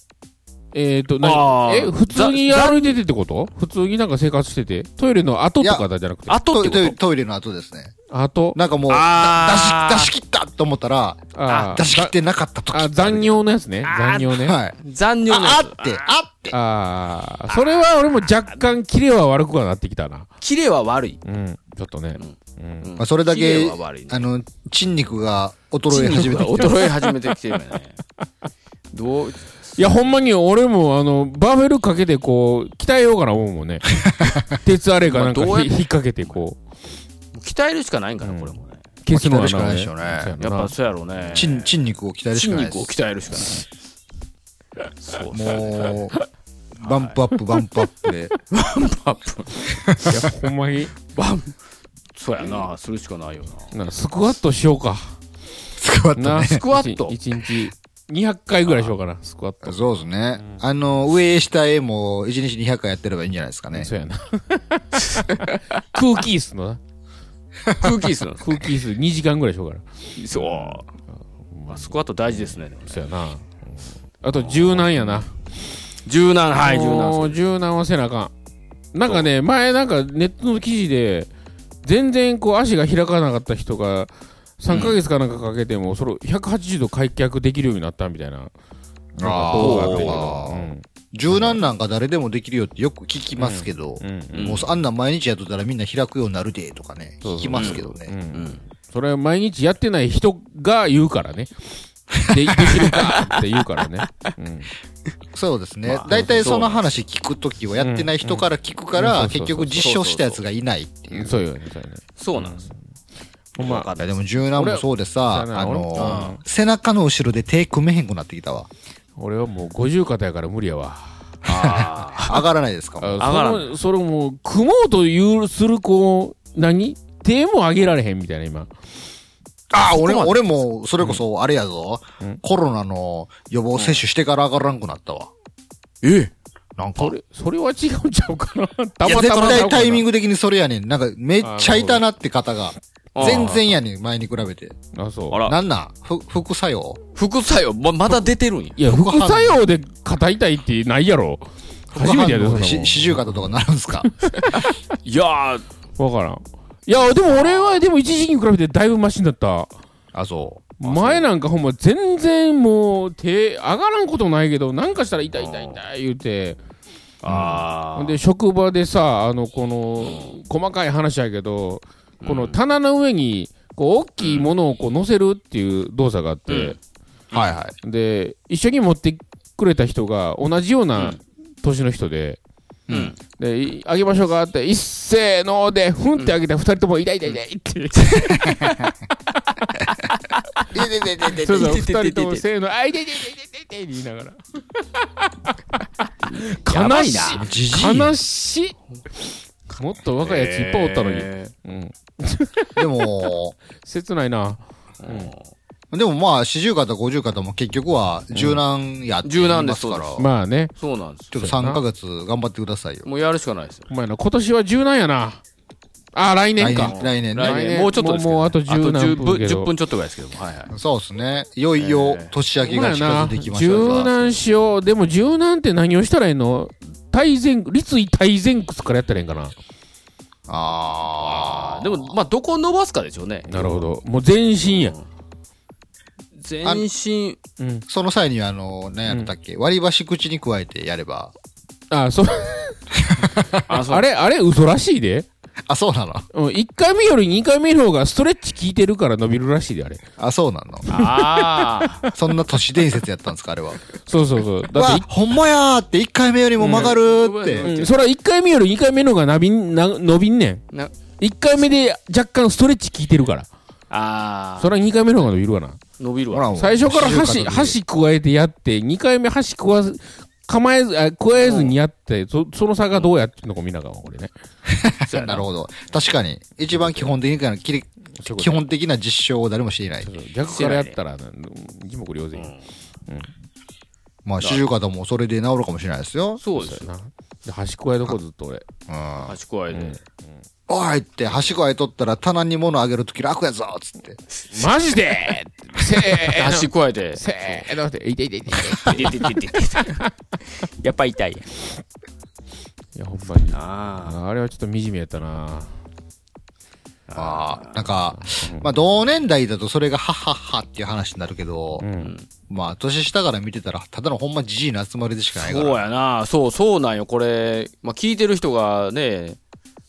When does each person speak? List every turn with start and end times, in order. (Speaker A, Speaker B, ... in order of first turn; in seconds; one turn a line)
Speaker A: 0.7-6.4
Speaker B: 1.2-3.0
Speaker C: 5.6-5.8
Speaker B: 6.3-6.9
Speaker C: 6.5-7.9
Speaker A: 8.1-8.6
Speaker C: 8.5-13.3
Speaker B: 8.9-10.1
Speaker A: 11.3-12.1
Speaker B: 11.5-11.7
Speaker A: 12.7-14.6
Speaker B: 13.8-16.1
Speaker C: 14.4-14.8
Speaker C: 15.3-16.6
Speaker A: 16.5-20.3
Speaker B: 17.5-17.8
Speaker B: 20.4-21.2
Speaker A: 21.2-22.9
Speaker B: 22.1-24.3
Speaker C: 23.0-26.8
Speaker B: 25.9-28.0
Speaker B: 28.9-29.8
Speaker A: 29.8-36.6
Speaker B: 35.0-36.4
Speaker B: 37.3-38.8
Speaker A: 38.2-41.4
Speaker C: 39.1-40.3
Speaker B: 40.4-41.8
Speaker C: 41.3-42.9
Speaker B: 42.3-43.7
Speaker B: 45.0-46.0
Speaker C: 45.3-46.1
Speaker C: 46.8-48.3
Speaker B: 46.8-47.2
Speaker B: 48.5-50.0
Speaker A: 50.1-50.9
Speaker B: 51.1-51.5
Speaker B: 52.1-53.7
Speaker A: 53.7-55.1
Speaker C: 55.8-56.6
Speaker A: 56.2-59.8
Speaker B: 56.5-57.2
Speaker C: 59.6-63.9
Speaker A: 60.4-60.6
Speaker A: 63.7-66.8
Speaker B: 65.0-65.6
Speaker B: 67.8-68.6
Speaker A: 68.4-70.8
Speaker B: 70.2-70.9
Speaker A: 71.5-75.4
Speaker B: 71.7-73.0
Speaker B: 74.4-75.2
Speaker B: 76.0-77.4
Speaker A: 76.5-78.3
Speaker A: 78.9-81.3
Speaker A: 81.8-88.5
Speaker B: 84.7-85.0
Speaker C: 89.2-98.1
Speaker A: 89.2-91.6
Speaker B: 89.5-90.3
Speaker A: 93.4-94.6
Speaker B: 94.3-94.7
Speaker A: 97.2-104.7
Speaker B: 97.5-97.8
Speaker B: 98.3-98.6
Speaker B: 102.9-103.4
Speaker C: 105.3-111.4
Speaker B: 105.9-106.8
Speaker A: 107.8-109.9
Speaker B: 109.8-110.4
Speaker A: 111.1-112.8
Speaker B: 112.2-112.7
Speaker B: 113.5-114.2
Speaker A: 113.6-113.9
Speaker C: 114.0-118.7
Speaker A: 114.5-116.4
Speaker B: 116.0-116.4
Speaker A: 119.2-121.3
Speaker B: 121.4-122.4
Speaker C: 121.6-123.2
Speaker A: 123.0-128.7
Speaker B: 123.2-123.7
Speaker C: 129.7-135.3
Speaker B: 129.8-130.4
Speaker B: 133.7-134.0
Speaker B: 136.0-136.3
Speaker C: 136.8-137.2
Speaker A: 137.0-140.0
Speaker C: 139.0-144.7
Speaker B: 139.0-139.7
Speaker A: 141.4-142.0
Speaker B: 143.1-143.6
Speaker A: 144.9-145.4
Speaker B: 145.3-145.6
Speaker C: 145.4-147.0
Speaker B: 147.2-148.8
Speaker A: 148.8-154.6
Speaker C: 148.8-149.6
Speaker C: 151.9-154.1
Speaker B: 154.4-155.7
Speaker A: 156.0-159.7
Speaker B: 157.3-157.8
Speaker C: 160.1-160.7
Speaker A: 160.8-166.6
Speaker B: 160.8-161.3
Speaker B: 165.4-165.8
Speaker B: 167.2-168.2
Speaker C: 167.3-167.6
Speaker A: 167.9-176.8
Speaker B: 170.0-170.3
Speaker B: 172.2-172.6
Speaker B: 174.2-174.5
Speaker B: 176.5-176.8
Speaker C: 177.3-177.7
Speaker A: 177.8-182.4
Speaker B: 182.9-183.2
Speaker A: 183.3-188.7
Speaker B: 188.0-188.8
Speaker B: 190.0-190.6
Speaker C: 190.7-191.8
Speaker A: 191.4-195.1
Speaker B: 191.4-192.4
Speaker B: 196.2-197.4
Speaker A: 196.4-198.8
Speaker C: 197.3-198.1
Speaker A: 199.8-202.8
Speaker B: 200.2-201.5
Speaker C: 202.8-203.5
Speaker A: 203.8-205.3
Speaker B: 205.0-205.5
Speaker C: 205.9-210.3
Speaker A: 208.3-208.6
Speaker B: 209.2-211.3
Speaker A: 210.2-210.7
Speaker C: 211.3-213.1
Speaker A: 211.3-211.8
Speaker B: 213.0-213.9
Speaker A: 213.9-215.4
Speaker A: 216.1-219.7
Speaker C: 216.6-217.6
Speaker B: 216.8-220.7
Speaker C: 220.7-224.1
Speaker B: 221.8-222.3
Speaker A: 222.6-229.5
Speaker C: 230.5-232.1
Speaker B: 231.2-233.9
Speaker A: 233.5-234.9
Speaker B: 234.6-235.0
Speaker B: 236.3-237.4
Speaker A: 237.6-237.8
Speaker C: 237.9-241.3
Speaker A: 241.9-242.8
Speaker C: 243.0-243.5
Speaker B: 243.7-244.1
Speaker A: 243.7-245.3
Speaker C: 245.7-246.3
Speaker A: 246.3-250.0
Speaker C: 250.2-250.9
Speaker B: 250.9-252.1
Speaker A: 250.9-252.1
Speaker C: 252.2-253.8
Speaker A: 254.1-255.1
Speaker C: 254.7-257.7
Speaker A: 256.6-256.9
Speaker B: 256.6-257.9
Speaker A: 257.6-260.6
Speaker A: 261.2-263.5
Speaker B: 263.9-264.7
Speaker A: 264.6-265.8
Speaker B: 266.0-266.6
Speaker C: 266.3-267.8
Speaker A: 266.6-274.3
Speaker B: 271.3-271.8
Speaker C: 274.7-280.1
Speaker B: 275.1-275.5
Speaker A: 276.7-277.1
Speaker A: 278.2-278.6
Speaker A: 280.0-282.5
Speaker B: 280.5-281.0
Speaker B: 282.3-282.7
Speaker C: 284.2-286.4
Speaker B: 284.4-284.6
Speaker B: 286.4-286.9
Speaker A: 286.6-288.6
Speaker C: 288.9-289.3
Speaker B: 289.3-290.0
Speaker A: 289.7-290.0
Speaker C: 290.7-294.2
Speaker A: 294.5-299.4
Speaker B: 296.1-297.2
Speaker B: 298.9-300.0
Speaker B: 300.8-301.5
Speaker A: 302.9-305.8
Speaker B: 303.5-304.2
Speaker B: 307.1-307.9
Speaker C: 307.1-311.9
Speaker A: 308.3-308.7
Speaker A: 311.8-312.1
Speaker B: 312.0-312.3
Speaker C: 312.5-315.8
Speaker B: 315.4-319.4